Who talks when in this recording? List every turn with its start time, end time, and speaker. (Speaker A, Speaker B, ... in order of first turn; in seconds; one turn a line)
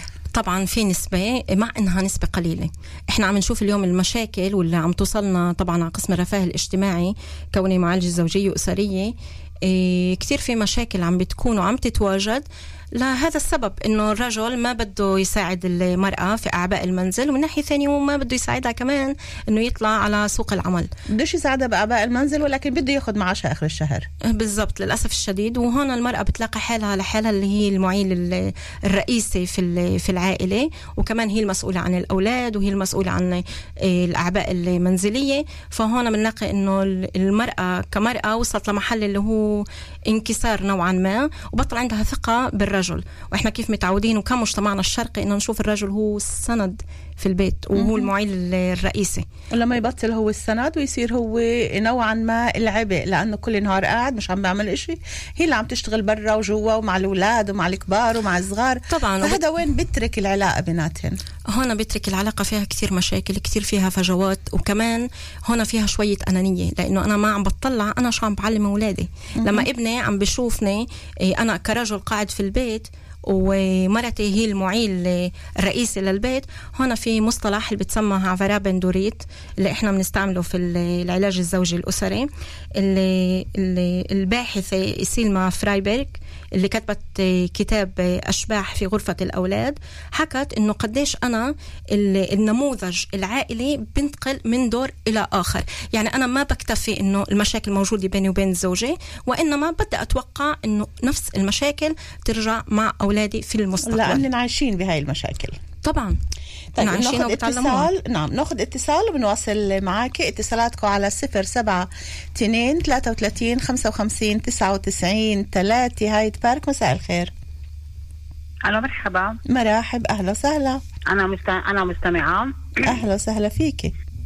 Speaker A: 0.3-20.9
Speaker B: 21.1-24.1
Speaker A: 24.3-49.2
Speaker B: 47.8-48.1
Speaker B: 49.5-61.2
Speaker A: 58.9-59.4
Speaker A: 61.5-104.2
Speaker B: 69.4-69.7
Speaker B: 103.8-105.6
Speaker A: 105.8-106.2
Speaker B: 106.7-117.3
Speaker A: 106.8-107.9
Speaker C: 118.6-119.4
Speaker B: 119.5-120.8
Speaker C: 121.1-122.8
Speaker B: 122.8-123.9